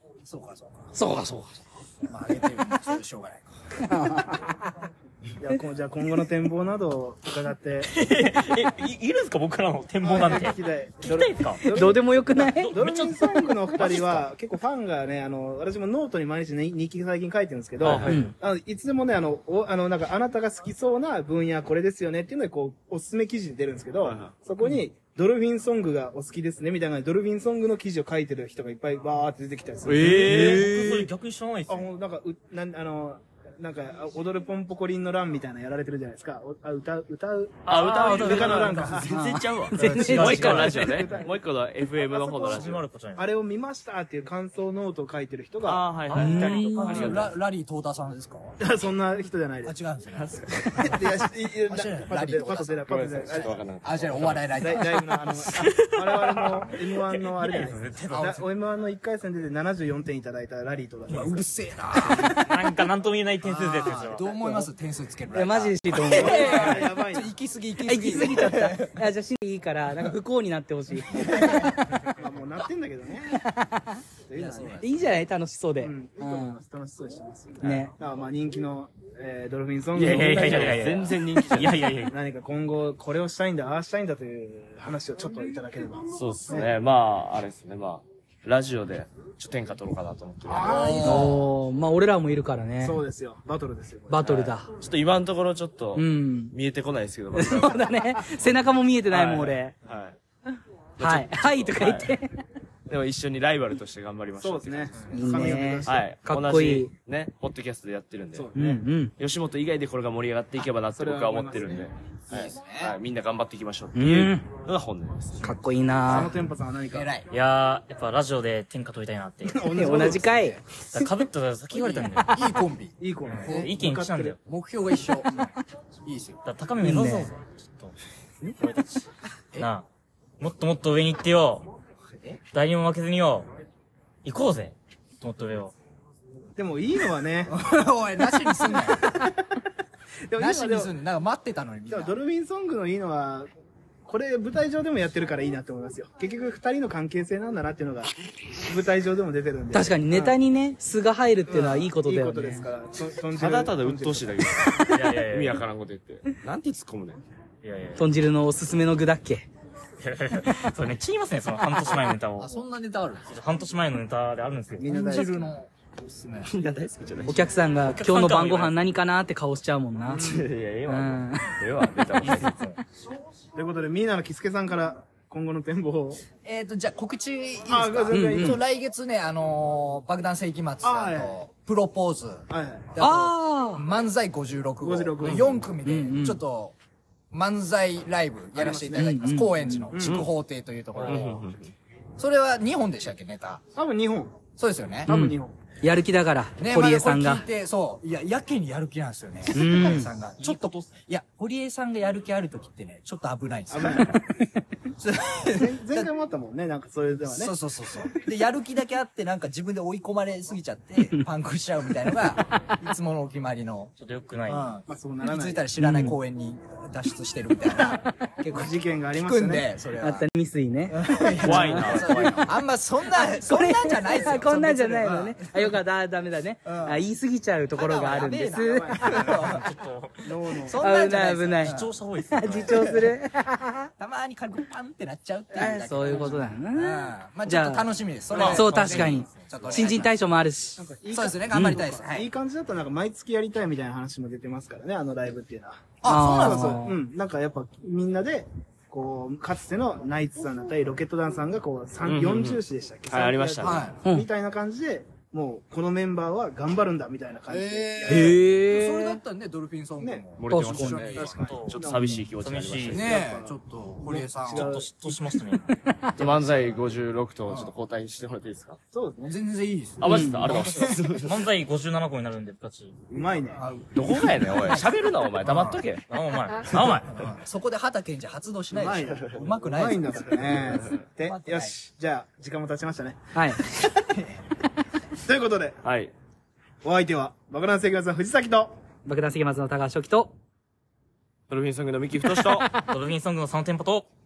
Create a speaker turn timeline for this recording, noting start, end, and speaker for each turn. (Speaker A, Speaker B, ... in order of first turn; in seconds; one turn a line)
Speaker A: 0.2-0.9
Speaker B: 0.9-1.6
Speaker A: 2.1-3.5
Speaker B: 3.9-4.7
Speaker C: 5.4-7.9
Speaker D: 7.9-11.7
Speaker C: 10.0-30.8
Speaker B: 11.6-13.8
Speaker D: 12.4-14.2
Speaker E: 17.8-18.2
Speaker B: 18.1-18.3
Speaker E: 24.1-24.3
Speaker E: 29.9-31.1
Speaker D: 30.1-31.9
Speaker B: 30.3-30.9
Speaker C: 31.7-39.1
Speaker E: 37.7-42.8
Speaker D: 37.9-38.7
Speaker B: 38.2-41.0
Speaker C: 39.8-41.4
Speaker C: 42.0-45.8
Speaker D: 42.5-43.2
Speaker E: 45.6-47.4
Speaker D: 46.1-47.2
Speaker B: 46.1-47.1
Speaker A: 46.8-48.6
Speaker C: 48.6-49.8
Speaker A: 49.7-51.0
Speaker E: 50.1-51.0
Speaker C: 50.8-53.6
Speaker A: 51.7-55.0
Speaker E: 52.9-54.7
Speaker C: 54.6-61.5
Speaker E: 55.5-56.3
Speaker D: 57.1-58.4
Speaker A: 58.1-58.4
Speaker A: 61.1-62.5
Speaker D: 62.1-64.7
Speaker A: 63.4-69.0
Speaker B: 65.3-66.8
Speaker C: 66.1-67.3
Speaker B: 67.8-71.8
Speaker A: 71.1-71.8
Speaker C: 72.1-73.4
Speaker B: 73.3-74.0
Speaker C: 74.3-74.8
Speaker A: 74.3-75.0
Speaker B: 74.8-76.6
Speaker C: 75.8-81.1
Speaker B: 77.6-78.0
Speaker E: 80.0-81.9
Speaker D: 80.0-82.2
Speaker C: 82.0-86.7
Speaker E: 86.2-91.2
Speaker C: 90.5-91.4
Speaker A: 90.6-91.4
Speaker B: 91.0-93.0
Speaker C: 92.8-94.3
Speaker B: 94.1-94.7
Speaker E: 94.2-98.3
Speaker B: 96.0-96.5
Speaker B: 97.3-99.8
Speaker E: 99.1-100.2
Speaker E: 101.0-102.1
Speaker B: 101.0-102.3
Speaker E: 102.9-105.1
Speaker C: 104.4-106.1
Speaker B: 105.1-106.9
Speaker E: 105.9-108.5
Speaker C: 108.3-108.8
Speaker B: 108.5-109.1
Speaker E: 109.2-115.5
Speaker C: 111.0-111.9
Speaker A: 112.3-113.0
Speaker B: 114.0-114.5
Speaker B: 115.4-116.3
Speaker C: 116.1-117.1
Speaker A: 116.9-117.3
Speaker D: 117.3-119.8
Speaker C: 119.5-120.5
Speaker B: 119.7-120.6
Speaker D: 120.9-122.4
Speaker A: 121.8-125.5
Speaker C: 123.0-124.4
Speaker D: 123.3-124.4
Speaker A: 126.0-126.4
Speaker D: 126.5-127.9
Speaker B: 126.8-127.3
Speaker D: 128.6-129.9
Speaker D: 130.4-131.7
Speaker A: 132.1-132.4
Speaker D: 132.5-133.5
Speaker D: 134.2-135.7
Speaker C: 136.6-137.6
Speaker A: 137.5-139.1
Speaker C: 138.7-139.6
Speaker C: 140.3-140.9
Speaker A: 140.4-142.2
Speaker C: 141.9-143.5
Speaker C: 144.1-150.4
Speaker B: 149.7-152.7
Speaker C: 151.5-154.7
Speaker E: 153.4-157.2
Speaker D: 154.9-155.6
Speaker D: 157.6-158.1
Speaker B: 158.0-159.5
Speaker D: 160.0-162.5
Speaker A: 162.4-163.4
Speaker D: 163.3-165.1
Speaker C: 164.8-165.6
Speaker A: 164.8-166.5
Speaker E: 166.4-167.5
Speaker B: 167.2-170.3
Speaker D: 167.8-168.8
Speaker C: 170.0-170.5
Speaker E: 170.2-172.8
Speaker B: 170.9-171.6
Speaker C: 173.6-176.2
Speaker A: 176.4-186.8
Speaker C: 177.7-178.6
Speaker B: 178.1-178.6
Speaker C: 180.8-181.4
Speaker C: 182.5-182.9
Speaker B: 183.0-183.8
Speaker C: 184.8-185.7
Speaker B: 185.8-186.4
Speaker A: 187.3-191.5
Speaker C: 188.5-190.3
Speaker B: 189.0-189.9
Speaker E: 190.0-190.3
Speaker C: 191.0-191.4
Speaker E: 191.0-191.7
Speaker A: 192.2-193.6
Speaker C: 193.8-194.4
Speaker A: 194.6-195.1
Speaker C: 195.1-195.6
Speaker B: 195.1-197.4
Speaker A: 196.6-206.1
Speaker B: 199.5-200.1
Speaker D: 200.4-200.9
Speaker C: 203.7-204.2
Speaker C: 205.5-207.5
Speaker A: 207.3-213.9
Speaker D: 214.0-214.8
Speaker A: 214.5-220.3
Speaker C: 214.9-215.7
Speaker B: 215.8-216.2
Speaker C: 218.5-219.7
Speaker B: 220.0-221.8
Speaker A: 220.9-225.6
Speaker E: 221.4-222.3
Speaker D: 221.7-222.5
Speaker B: 223.1-229.4
Speaker A: 226.7-227.1
Speaker A: 227.7-229.7
Speaker C: 228.5-229.7
Speaker D: 229.5-230.3
Speaker C: 230.2-230.9
Speaker A: 230.6-232.0
Speaker B: 230.8-231.8
Speaker D: 231.6-233.0
Speaker B: 232.3-233.9
Speaker A: 234.0-240.1
Speaker B: 235.5-240.8
Speaker D: 238.3-239.9
Speaker C: 240.7-258.4
Speaker A: 241.1-242.3
Speaker A: 246.0-246.8
Speaker B: 246.0-247.0
Speaker E: 252.1-253.8
Speaker A: 253.6-254.0
Speaker A: 257.5-261.4
Speaker B: 258.1-259.2
Speaker C: 260.0-260.2
Speaker E: 260.4-263.1
Speaker B: 260.5-261.1
Speaker C: 261.1-262.1
Speaker D: 261.3-261.8
Speaker D: 262.4-263.1
Speaker A: 262.9-264.8
Speaker C: 262.9-265.3
Speaker D: 264.5-265.7
Speaker E: 266.2-268.8
Speaker A: 266.2-266.8
Speaker A: 267.5-267.7
Speaker C: 268.9-269.4
Speaker A: 269.2-271.2
Speaker E: 270.0-271.4
Speaker B: 270.1-270.5
Speaker D: 271.1-273.0
Speaker C: 273.1-273.6
Speaker A: 273.5-275.8
Speaker E: 273.9-276.1
Speaker D: 276.1-277.2
Speaker A: 276.7-281.7
Speaker C: 278.7-283.9
Speaker E: 279.1-279.4
Speaker B: 283.4-283.7
Speaker A: 284.1-284.4
Speaker C: 285.2-285.8
Speaker E: 285.8-286.1
Speaker C: 286.8-288.7
Speaker B: 289.1-290.4
Speaker E: 291.5-292.7
Speaker D: 292.7-294.1